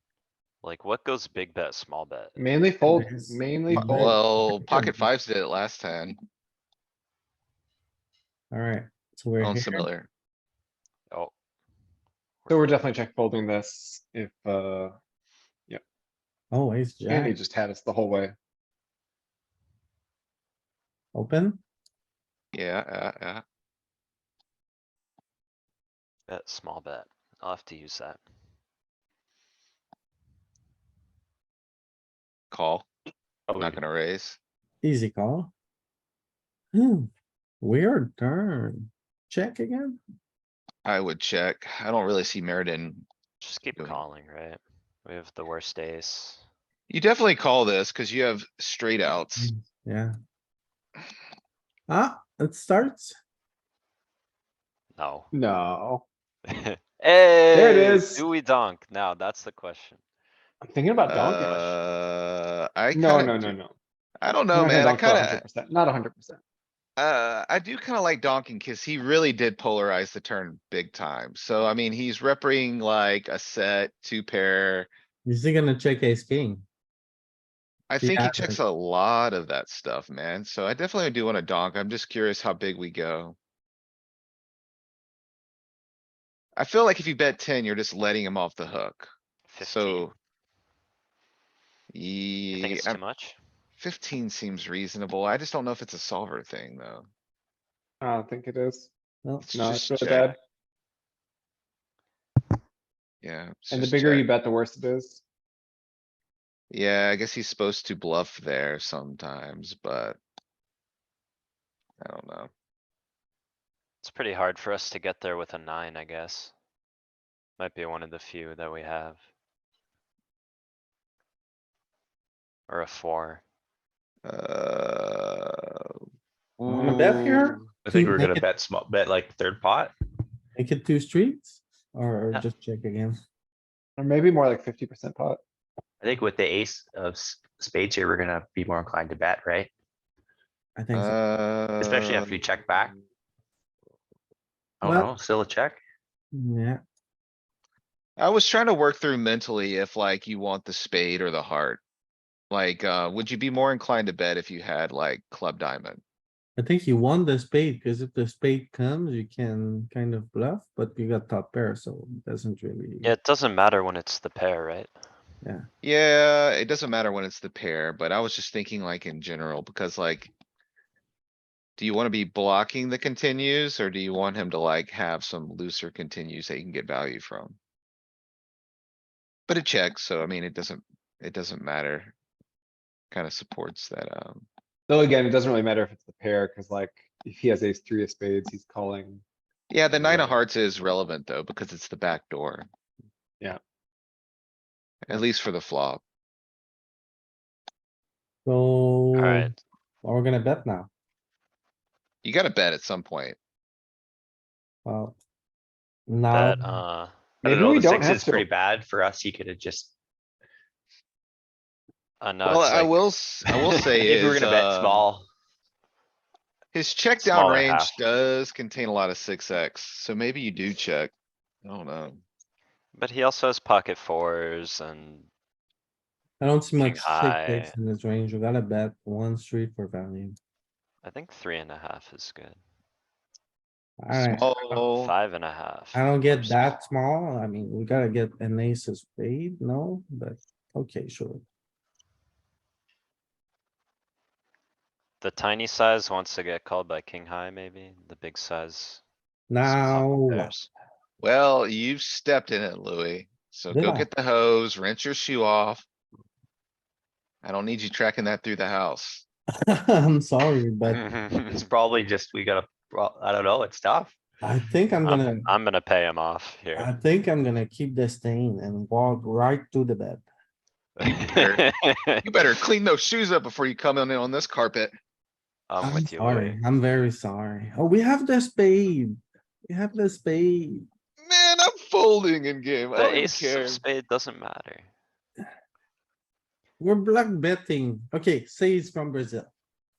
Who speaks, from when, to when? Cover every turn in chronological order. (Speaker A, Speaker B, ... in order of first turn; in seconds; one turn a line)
Speaker A: 0.6-2.4
Speaker B: 2.4-4.2
Speaker C: 2.8-5.1
Speaker D: 3.9-6.2
Speaker C: 8.5-9.9
Speaker D: 9.4-10.1
Speaker A: 12.4-12.7
Speaker B: 12.5-14.9
Speaker C: 16.5-17.3
Speaker B: 17.1-18.3
Speaker C: 21.1-21.6
Speaker D: 22.5-23.4
Speaker A: 26.3-28.2
Speaker D: 32.5-32.9
Speaker E: 33.5-33.8
Speaker D: 33.5-34.4
Speaker C: 34.8-35.5
Speaker C: 36.7-37.1
Speaker C: 37.6-40.0
Speaker D: 40.8-43.0
Speaker A: 43.4-46.4
Speaker D: 43.8-44.0
Speaker D: 46.9-49.5
Speaker C: 49.4-50.1
Speaker C: 51.9-53.1
Speaker A: 55.0-55.3
Speaker B: 55.3-56.0
Speaker A: 56.5-60.0
Speaker B: 57.5-58.2
Speaker B: 60.6-61.8
Speaker D: 61.0-63.5
Speaker B: 62.9-63.7
Speaker D: 64.2-65.4
Speaker B: 64.5-66.4
Speaker D: 67.0-74.9
Speaker C: 75.2-76.6
Speaker D: 77.9-83.3
Speaker C: 78.0-78.6
Speaker D: 86.6-90.1
Speaker A: 89.5-90.1
Speaker D: 91.9-93.0
Speaker A: 92.5-93.4
Speaker D: 93.8-97.1
Speaker B: 98.0-98.9
Speaker D: 99.4-100.3
Speaker B: 99.5-100.4
Speaker D: 103.2-104.3
Speaker B: 103.7-105.2
Speaker D: 106.7-110.2
Speaker D: 112.0-112.5
Speaker A: 114.0-116.5
Speaker A: 117.6-119.2
Speaker A: 122.7-123.4
Speaker D: 124.2-125.9
Speaker D: 126.6-127.7
Speaker C: 126.7-128.4
Speaker E: 127.8-129.9
Speaker C: 130.6-133.2
Speaker B: 134.0-135.4
Speaker E: 136.0-139.7
Speaker C: 140.8-141.2
Speaker D: 140.9-142.3
Speaker E: 141.8-142.9
Speaker E: 144.8-145.8
Speaker C: 144.8-145.1
Speaker C: 146.3-146.8
Speaker D: 148.2-151.8
Speaker D: 152.5-156.0
Speaker C: 156.6-163.1
Speaker A: 163.0-164.9
Speaker D: 165.8-170.3
Speaker D: 171.8-177.6
Speaker D: 179.5-182.1
Speaker D: 183.1-184.4
Speaker B: 184.9-189.2
Speaker D: 189.7-192.7
Speaker B: 189.9-190.4
Speaker D: 195.1-196.0
Speaker C: 198.4-199.5
Speaker A: 199.1-199.6
Speaker C: 200.0-200.9
Speaker D: 202.2-203.4
Speaker C: 204.8-205.2
Speaker C: 206.1-206.8
Speaker A: 206.3-207.1
Speaker E: 207.4-209.9
Speaker B: 207.4-208.5
Speaker A: 212.2-213.9
Speaker D: 212.4-215.0
Speaker E: 214.0-215.3
Speaker D: 216.7-221.1
Speaker A: 217.2-218.0
Speaker D: 221.6-222.2
Speaker A: 222.9-225.3
Speaker C: 226.4-230.3
Speaker A: 226.8-227.7
Speaker A: 231.0-232.6
Speaker C: 234.0-234.5
Speaker D: 234.1-235.1
Speaker A: 234.7-236.8
Speaker C: 235.9-241.4
Speaker A: 245.2-249.0
Speaker C: 249.5-250.5
Speaker A: 249.6-250.7
Speaker D: 251.2-255.8
Speaker C: 253.7-254.1
Speaker D: 257.4-259.2
Speaker C: 259.7-261.0
Speaker A: 260.9-261.6
Speaker E: 261.5-264.2
Speaker C: 264.4-265.5
Speaker A: 265.0-266.9
Speaker C: 266.7-270.2
Speaker A: 271.0-272.2
Speaker D: 271.0-271.6
Speaker D: 272.2-274.9
Speaker A: 275.7-276.6
Speaker C: 275.8-279.1
Speaker C: 279.7-280.8
Speaker D: 281.2-283.8
Speaker A: 282.9-284.9
Speaker C: 286.8-289.5